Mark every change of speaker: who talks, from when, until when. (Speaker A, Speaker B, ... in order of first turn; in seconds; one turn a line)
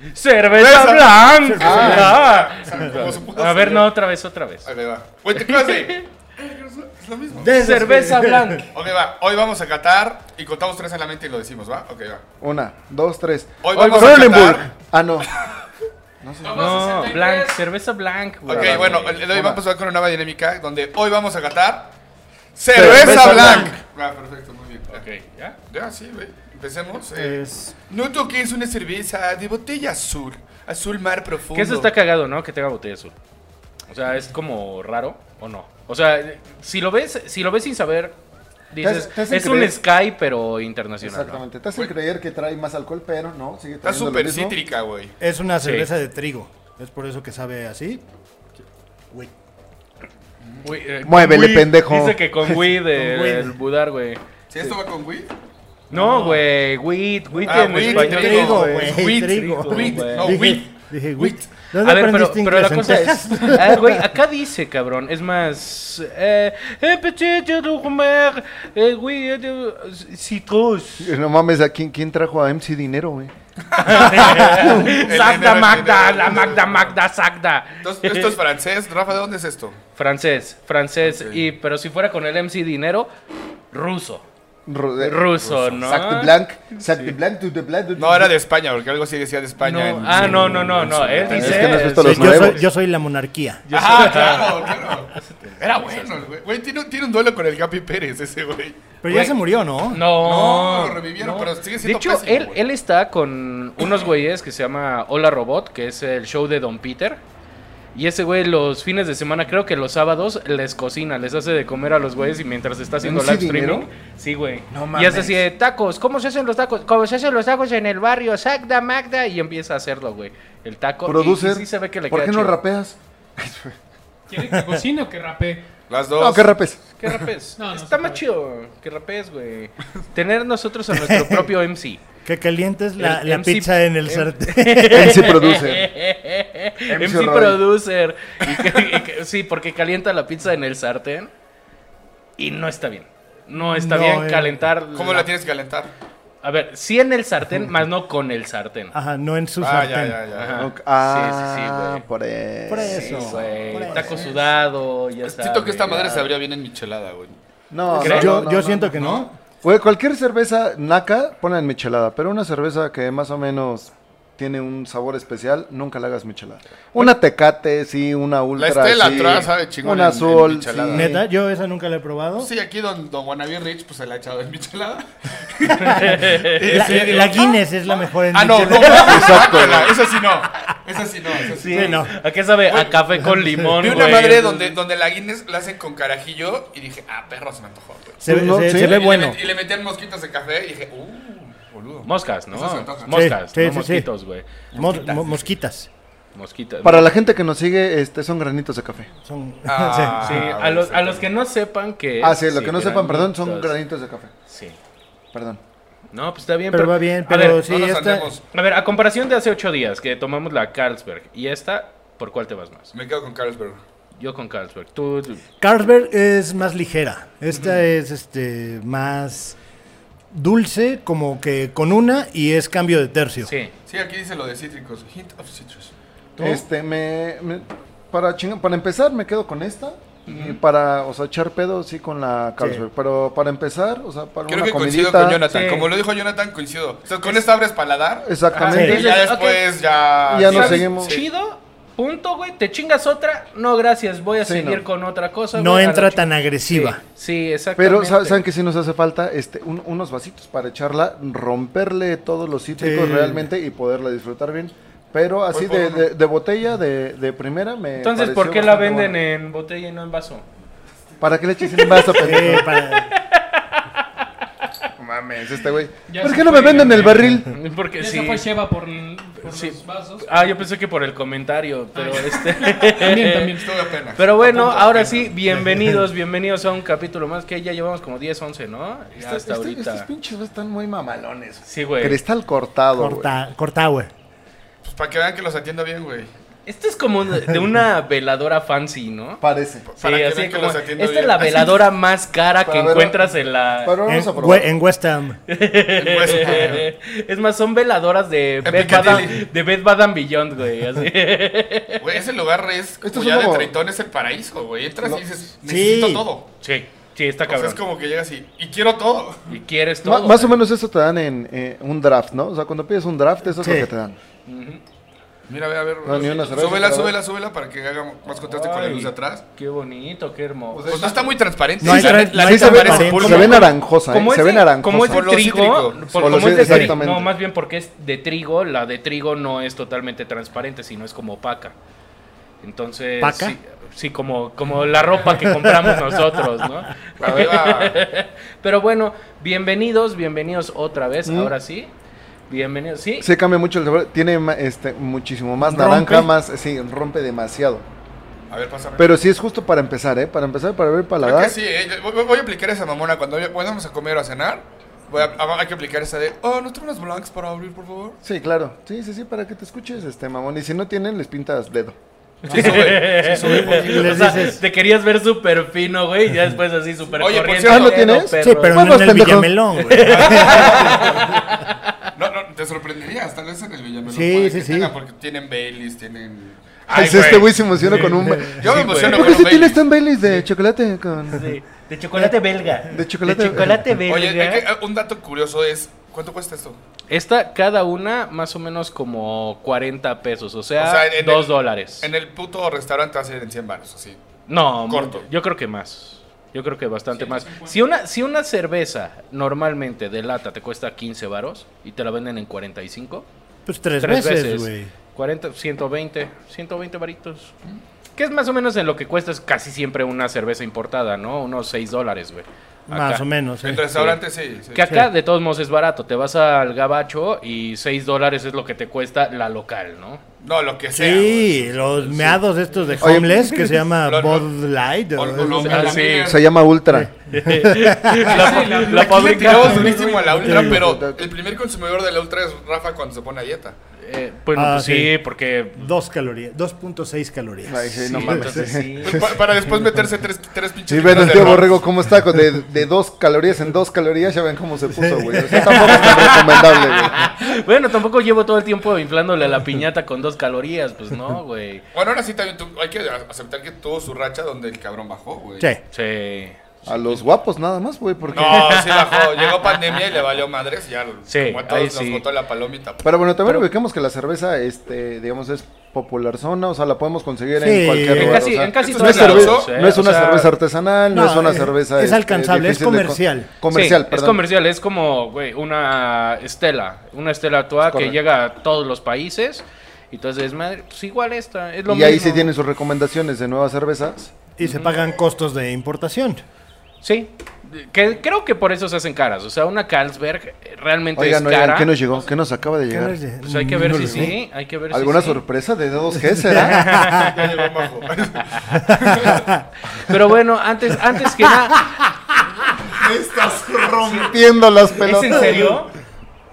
Speaker A: 0.1-4.7
Speaker B: 0.5-3.9
Speaker C: 1.4-3.1
Speaker B: 4.7-7.5
Speaker A: 5.4-6.0
Speaker C: 7.4-8.6
Speaker A: 7.5-8.7
Speaker B: 8.7-12.2
Speaker D: 12.4-15.3
Speaker B: 13.6-14.7
Speaker A: 13.7-14.6
Speaker D: 16.2-17.0
Speaker E: 16.4-17.6
Speaker A: 16.5-19.3
Speaker B: 18.5-21.9
Speaker D: 18.5-19.6
Speaker B: 22.6-25.0
Speaker D: 22.7-23.8
Speaker A: 22.8-23.7
Speaker C: 22.9-23.6
Speaker A: 24.9-25.6
Speaker B: 25.7-31.9
Speaker C: 27.1-27.8
Speaker A: 31.5-33.1
Speaker A: 33.9-38.2
Speaker A: 38.7-41.4
Speaker D: 38.8-39.8
Speaker D: 41.0-44.5
Speaker B: 43.8-45.1
Speaker C: 45.2-48.0
Speaker A: 45.6-45.9
Speaker A: 50.6-54.2
Speaker D: 51.0-52.2
Speaker C: 52.9-53.5
Speaker B: 54.5-55.3
Speaker A: 55.9-60.3
Speaker B: 55.9-56.3
Speaker B: 57.5-61.5
Speaker C: 57.7-64.1
Speaker A: 61.8-71.1
Speaker D: 71.0-73.3
Speaker B: 73.7-76.9
Speaker A: 73.8-78.4
Speaker D: 73.9-75.0
Speaker B: 77.8-79.8
Speaker A: 80.0-83.1
Speaker B: 81.0-81.4
Speaker A: 83.7-84.2
Speaker D: 84.7-88.3
Speaker A: 85.0-87.1
Speaker B: 88.0-91.8
Speaker A: 89.6-92.6
Speaker C: 90.3-90.7
Speaker D: 91.2-92.6
Speaker C: 92.0-93.7
Speaker B: 93.7-99.3
Speaker A: 93.7-96.2
Speaker C: 99.0-100.0
Speaker A: 99.9-107.2
Speaker B: 100.1-102.6
Speaker A: 107.9-122.6
Speaker D: 113.0-113.9
Speaker D: 114.7-115.4
Speaker D: 121.0-123.8
Speaker E: 124.3-125.6
Speaker C: 124.5-124.8
Speaker B: 125.9-126.6
Speaker D: 126.2-126.8
Speaker A: 127.0-132.0
Speaker E: 127.6-128.2
Speaker C: 130.9-131.5
Speaker C: 132.2-135.3
Speaker A: 133.0-141.3
Speaker D: 134.9-135.9
Speaker D: 136.9-137.6
Speaker A: 142.4-145.3
Speaker C: 143.5-144.6
Speaker B: 144.9-145.9
Speaker A: 146.4-148.9
Speaker C: 148.9-150.2
Speaker B: 149.6-150.6
Speaker A: 150.3-152.0
Speaker D: 150.6-154.3
Speaker C: 152.7-154.3
Speaker A: 152.9-156.3
Speaker B: 155.3-157.4
Speaker D: 157.7-171.2
Speaker C: 157.9-159.4
Speaker A: 158.0-158.3
Speaker B: 159.0-159.2
Speaker B: 168.6-171.1
Speaker C: 170.9-172.5
Speaker B: 172.4-177.5
Speaker A: 175.7-177.2
Speaker C: 176.0-179.4
Speaker B: 178.3-182.1
Speaker D: 178.9-179.9
Speaker A: 178.9-179.3
Speaker A: 181.5-184.8
Speaker C: 181.7-182.1
Speaker B: 182.7-183.0
Speaker C: 183.2-183.8
Speaker B: 183.8-188.2
Speaker C: 188.2-189.4
Speaker D: 188.2-189.0
Speaker B: 188.7-193.2
Speaker A: 192.1-195.1
Speaker C: 193.1-194.1
Speaker B: 194.7-195.3
Speaker C: 194.7-195.9
Speaker A: 196.3-197.1
Speaker D: 196.8-199.1
Speaker C: 199.2-200.5
Speaker B: 199.7-201.3
Speaker A: 200.2-203.7
Speaker D: 202.2-204.3
Speaker A: 204.5-204.8
Speaker D: 205.3-205.6
Speaker A: 206.1-207.6
Speaker C: 206.7-208.3
Speaker B: 207.6-208.4
Speaker A: 208.5-212.9
Speaker B: 212.9-213.8
Speaker A: 214.2-215.4
Speaker C: 215.6-219.6
Speaker C: 220.3-223.5
Speaker A: 223.4-223.7
Speaker B: 223.9-225.9
Speaker D: 226.4-235.4
Speaker C: 226.4-226.7
Speaker A: 230.3-230.6
Speaker C: 232.6-232.8
Speaker B: 234.5-241.2
Speaker A: 235.5-235.9
Speaker D: 238.2-239.1
Speaker A: 238.5-239.6
Speaker C: 238.7-239.0
Speaker D: 240.3-241.2
Speaker A: 240.4-248.4
Speaker D: 244.4-244.8
Speaker C: 245.6-247.0
Speaker D: 247.8-259.2
Speaker C: 252.8-253.5
Speaker B: 255.5-256.1
Speaker A: 258.0-260.4
Speaker D: 261.2-262.7
Speaker A: 261.7-264.0
Speaker C: 262.0-263.1
Speaker D: 265.0-267.5
Speaker E: 266.1-267.4
Speaker C: 267.1-267.4
Speaker A: 267.5-268.5
Speaker E: 268.0-270.6
Speaker A: 269.4-273.6
Speaker E: 271.9-273.8
Speaker B: 273.6-275.3
Speaker A: 274.2-280.1
Speaker C: 275.5-276.1
Speaker D: 279.2-283.3
Speaker A: 281.7-282.2
Speaker C: 282.9-284.1
Speaker B: 284.8-286.3
Speaker A: 286.7-289.4
Speaker D: 289.4-289.9
Speaker B: 289.9-291.9
Speaker A: 290.0-294.0
Speaker D: 292.6-293.3
Speaker D: 293.8-294.7
Speaker C: 294.1-295.4
Speaker A: 295.5-302.0
Speaker B: 295.9-296.9
Speaker B: 298.6-299.4
Speaker B: 302.0-306.5
Speaker D: 303.0-303.7
Speaker C: 305.7-306.3
Speaker A: 306.6-307.8
Speaker B: 307.5-309.5
Speaker A: 309.5-310.6
Speaker D: 310.0-314.2
Speaker C: 313.5-313.9
Speaker A: 314.5-314.8
Speaker B: 315.5-319.4
Speaker D: 316.0-317.1
Speaker A: 318.3-321.1
Speaker D: 320.7-325.2
Speaker B: 320.9-323.7
Speaker C: 321.8-323.7
Speaker A: 323.3-331.8
Speaker B: 325.0-326.8
Speaker D: 326.2-327.3
Speaker C: 326.6-326.9
Speaker A: 332.6-341.9
Speaker C: 333.2-333.6
Speaker C: 335.3-336.2
Speaker B: 337.2-338.0
Speaker D: 341.3-341.5
Speaker A: 342.5-343.3
Speaker D: 343.2-347.9
Speaker C: 345.6-346.3
Speaker B: 348.5-349.2
Speaker D: 349.0-351.6
Speaker B: 351.2-358.2
Speaker D: 358.2-362.0
Speaker B: 362.4-364.5
Speaker A: 362.5-369.1
Speaker C: 362.5-364.6
Speaker B: 367.1-368.2
Speaker D: 367.6-370.1
Speaker C: 368.4-370.9
Speaker A: 369.8-372.0
Speaker B: 370.1-371.5
Speaker B: 372.1-377.5
Speaker C: 374.1-374.9
Speaker A: 376.9-378.1
Speaker D: 376.9-381.5
Speaker C: 377.8-378.6
Speaker B: 378.4-379.8
Speaker A: 378.6-379.4
Speaker A: 381.3-384.6
Speaker C: 382.1-383.0
Speaker D: 382.9-383.9
Speaker C: 383.6-384.0
Speaker B: 384.1-386.8
Speaker A: 387.1-392.1
Speaker B: 390.8-394.2
Speaker A: 394.5-403.3
Speaker B: 394.9-395.2
Speaker E: 397.2-397.8
Speaker C: 403.7-404.9
Speaker A: 404.0-407.5
Speaker A: 408.2-413.2
Speaker C: 412.9-414.0
Speaker B: 413.6-414.9
Speaker A: 414.7-420.2
Speaker B: 420.4-422.4
Speaker C: 420.9-426.0
Speaker D: 423.0-423.6
Speaker B: 424.0-424.5
Speaker B: 425.1-426.5
Speaker A: 425.6-426.4
Speaker D: 426.2-427.1
Speaker C: 426.9-428.3
Speaker A: 427.3-430.0
Speaker E: 428.2-430.5
Speaker B: 428.3-433.8
Speaker D: 430.4-431.3
Speaker C: 430.4-430.8
Speaker A: 434.0-435.9
Speaker C: 434.5-435.1
Speaker C: 435.8-438.8
Speaker D: 437.7-439.3
Speaker A: 438.0-439.3
Speaker B: 439.0-441.9
Speaker D: 440.9-447.3
Speaker C: 445.0-446.2
Speaker A: 445.5-451.8
Speaker B: 451.9-455.7
Speaker A: 455.9-456.6
Speaker D: 456.9-458.7
Speaker B: 456.9-457.2
Speaker B: 458.3-463.1
Speaker A: 458.4-460.0
Speaker A: 461.3-462.2
Speaker D: 463.0-474.4
Speaker C: 467.6-468.5
Speaker A: 468.1-470.6
Speaker B: 468.6-469.7
Speaker C: 471.1-473.5
Speaker A: 473.7-482.5
Speaker D: 477.9-478.2
Speaker D: 481.9-484.4
Speaker C: 484.6-486.4
Speaker A: 484.6-485.0
Speaker A: 487.0-491.9
Speaker D: 491.2-493.2
Speaker C: 492.9-494.4
Speaker A: 493.4-495.4
Speaker D: 494.9-497.0
Speaker C: 496.4-497.3
Speaker A: 496.6-497.4
Speaker B: 497.1-499.5
Speaker A: 498.0-498.7
Speaker C: 498.7-499.6
Speaker A: 499.9-501.9
Speaker D: 502.9-505.8
Speaker A: 504.9-505.9